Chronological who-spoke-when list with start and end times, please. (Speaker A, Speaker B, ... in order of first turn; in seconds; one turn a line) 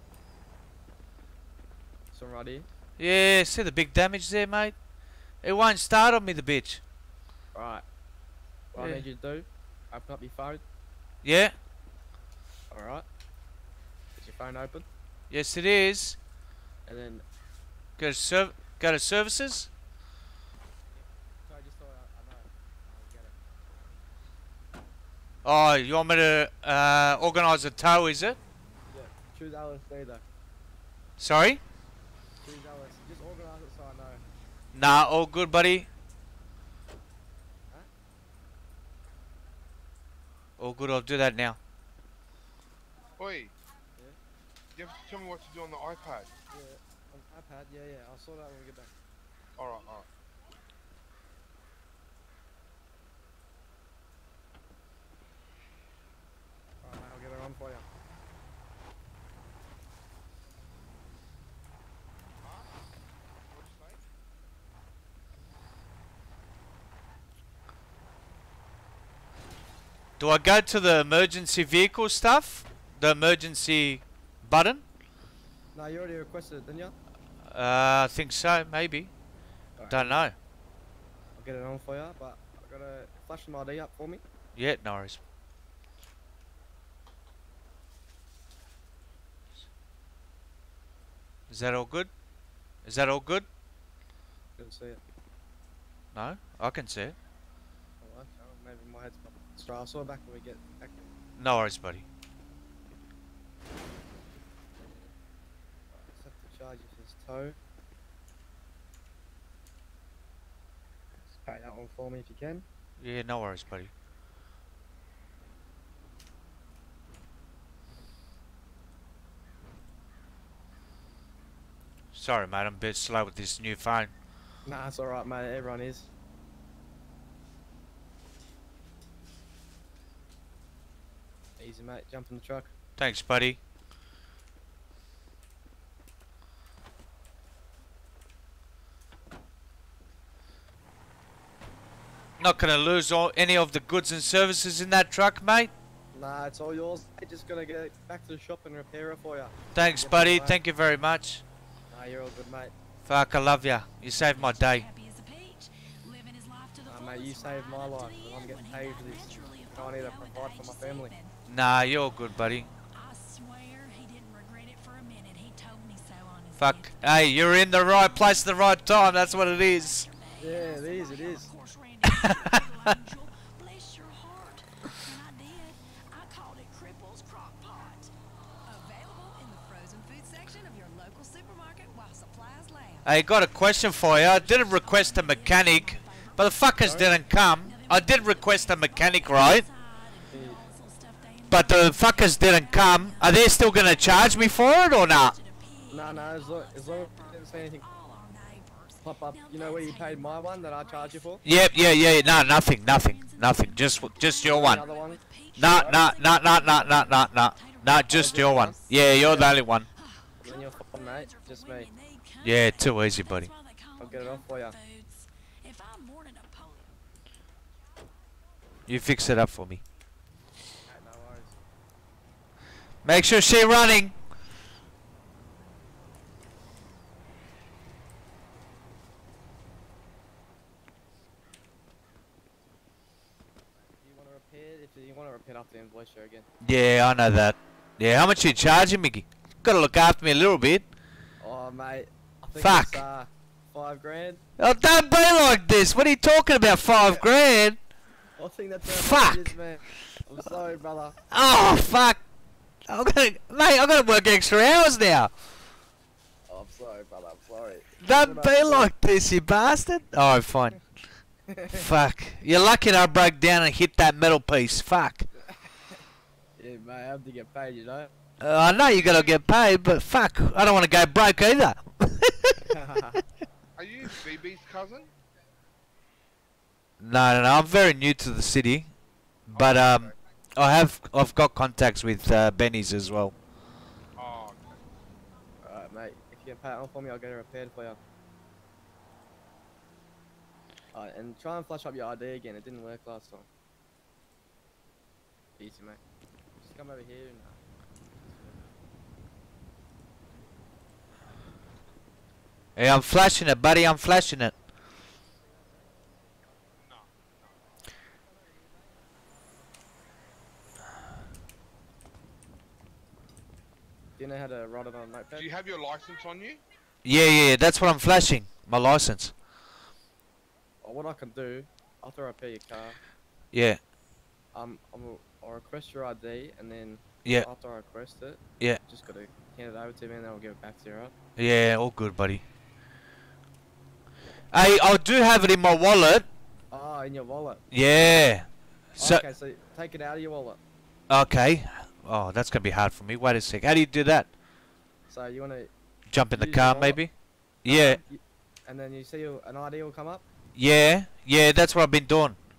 Speaker A: 2.1-2.7
Speaker B: 3.0-6.8
Speaker A: 7.5-7.8
Speaker A: 8.7-10.6
Speaker B: 8.8-9.0
Speaker B: 11.2-11.6
Speaker A: 12.7-13.1
Speaker A: 14.2-14.9
Speaker B: 15.3-16.2
Speaker A: 16.8-17.2
Speaker B: 18.0-19.7
Speaker A: 20.9-24.0
Speaker B: 25.4-28.4
Speaker A: 28.9-30.2
Speaker B: 31.2-31.6
Speaker A: 32.4-34.2
Speaker B: 34.7-35.9
Speaker B: 40.6-41.6
Speaker C: 43.2-43.5
Speaker C: 44.7-46.3
Speaker A: 46.5-48.9
Speaker C: 49.6-50.1
Speaker A: 56.8-57.9
Speaker C: 62.4-62.7
Speaker C: 63.5-64.0
Speaker B: 70.2-74.8
Speaker A: 75.7-76.9
Speaker B: 77.4-79.2
Speaker B: 79.7-80.3
Speaker A: 79.8-80.3
Speaker A: 81.3-84.2
Speaker B: 84.5-85.2
Speaker B: 91.5-92.1
Speaker B: 92.8-93.5
Speaker A: 94.6-95.0
Speaker B: 96.1-97.2
Speaker A: 98.0-101.1
Speaker B: 101.4-102.0
Speaker A: 105.9-107.6
Speaker A: 111.3-112.6
Speaker B: 113.0-113.9
Speaker B: 122.1-124.1
Speaker A: 124.6-126.1
Speaker A: 131.6-132.7
Speaker B: 133.0-133.6
Speaker B: 142.4-145.7
Speaker A: 146.1-150.6
Speaker B: 149.7-151.4
Speaker A: 151.9-152.7
Speaker B: 153.1-154.9
Speaker D: 154.2-161.3
Speaker A: 156.8-161.1
Speaker B: 161.5-162.7
Speaker D: 162.9-178.1
Speaker B: 166.6-170.1
Speaker A: 170.4-171.5
Speaker D: 178.7-216.9
Speaker B: 183.0-189.7
Speaker A: 186.8-187.1
Speaker A: 190.3-190.6
Speaker B: 191.5-195.3
Speaker A: 195.9-197.9
Speaker A: 199.0-201.4
Speaker B: 201.4-204.8
Speaker A: 204.4-206.0
Speaker B: 205.6-209.9
Speaker A: 208.1-209.5
Speaker A: 210.4-211.9
Speaker B: 212.4-213.5
Speaker A: 214.0-214.8
Speaker B: 218.9-219.8
Speaker A: 220.8-221.6
Speaker B: 223.0-224.2
Speaker A: 233.8-236.5
Speaker B: 236.6-240.9
Speaker A: 241.4-244.4
Speaker B: 242.6-243.0
Speaker B: 244.6-247.8
Speaker A: 248.4-251.2
Speaker B: 248.8-249.5
Speaker B: 251.3-252.2
Speaker B: 252.9-255.3
Speaker A: 256.4-258.9
Speaker B: 258.0-260.9
Speaker A: 261.5-261.8
Speaker B: 261.7-265.3
Speaker A: 266.6-268.1
Speaker B: 268.4-272.6
Speaker A: 272.8-273.1
Speaker C: 273.8-275.1
Speaker B: 277.0-278.9
Speaker B: 279.5-283.3
Speaker C: 279.5-280.1
Speaker C: 284.1-284.8
Speaker A: 285.6-288.0
Speaker A: 290.9-293.5
Speaker A: 295.6-296.0
Speaker A: 296.6-297.6
Speaker A: 298.2-298.6
Speaker B: 302.8-304.6
Speaker C: 306.8-307.1
Speaker A: 314.2-315.5
Speaker C: 315.3-316.6
Speaker B: 317.0-319.3
Speaker A: 320.8-323.0
Speaker B: 323.5-323.8
Speaker A: 324.5-331.1
Speaker B: 331.4-332.4
Speaker B: 334.5-336.3
Speaker A: 336.7-338.2
Speaker B: 337.7-339.2
Speaker A: 339.0-340.6
Speaker B: 341.1-344.3
Speaker A: 345.1-345.7
Speaker B: 346.1-348.0
Speaker A: 346.3-347.1
Speaker A: 347.7-350.2
Speaker B: 350.5-352.4